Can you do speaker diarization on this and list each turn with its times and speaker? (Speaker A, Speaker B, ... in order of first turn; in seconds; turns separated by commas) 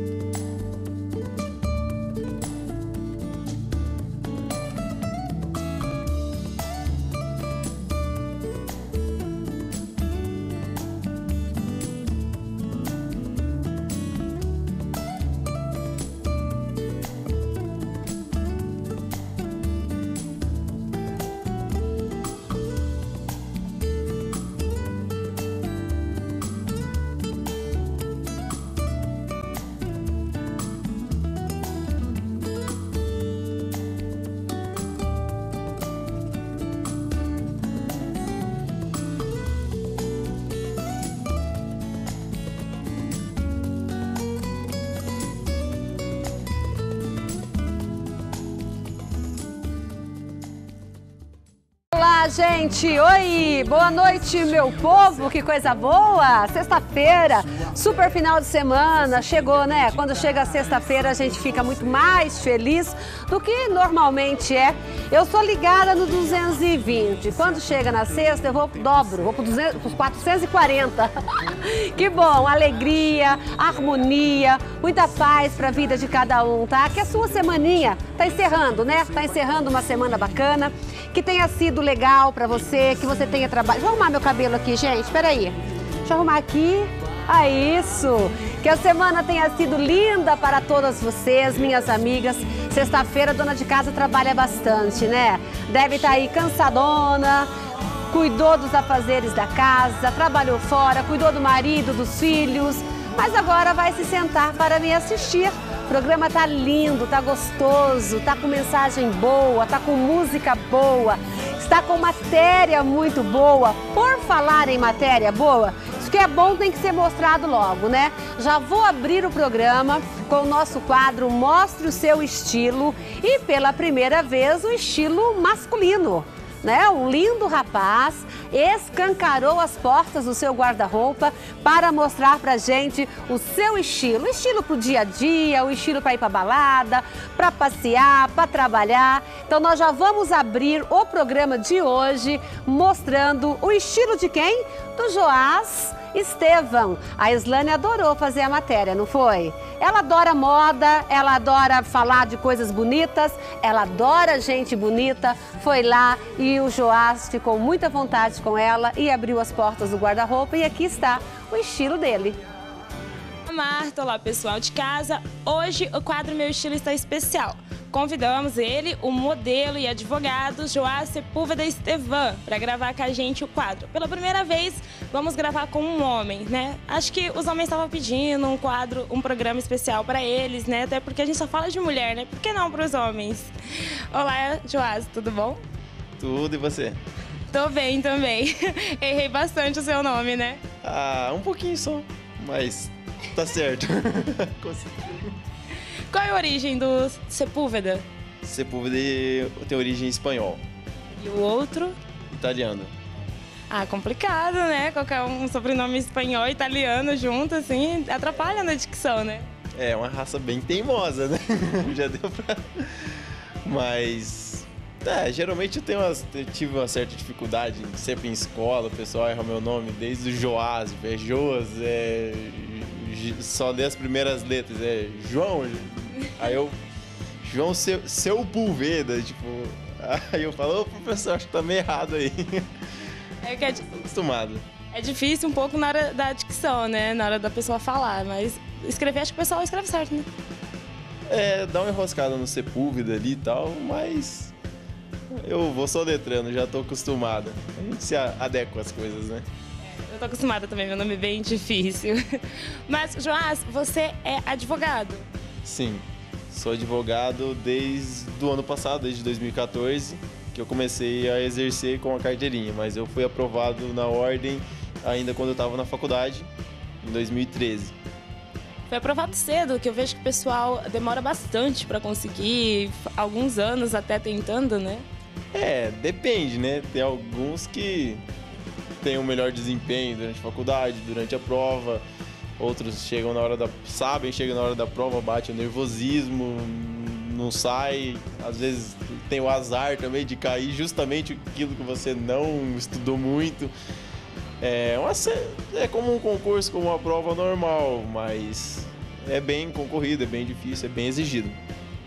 Speaker A: 51.9-97.5, Speaker A: 98.1-162.4, Speaker B: 163.5-183.5, Speaker B: 184.1-185.6, Speaker C: 186.2-187.0, Speaker B: 187.5-190.5, Speaker C: 190.8-195.4, Speaker B: 196.1-198.0, Speaker C: 198.4-200.6, Speaker B: 201.2-201.9, Speaker C: 202.3-202.9, Speaker B: 203.7-209.4, Speaker C: 209.8-226.8, Speaker C: 227.4-232.7, Speaker B: 233.4-233.7, Speaker C: 233.9-234.7, Speaker B: 234.9-240.2, Speaker C: 241.3-244.5, Speaker C: 245.3-249.5, Speaker B: 249.8-252.2, Speaker B: 252.9-255.2, Speaker C: 255.6-266.5, Speaker C: 267.0-268.0, Speaker B: 268.9-275.0, Speaker C: 275.5-278.2, Speaker C: 279.0-282.0, Speaker C: 282.6-293.7, Speaker C: 294.6-301.6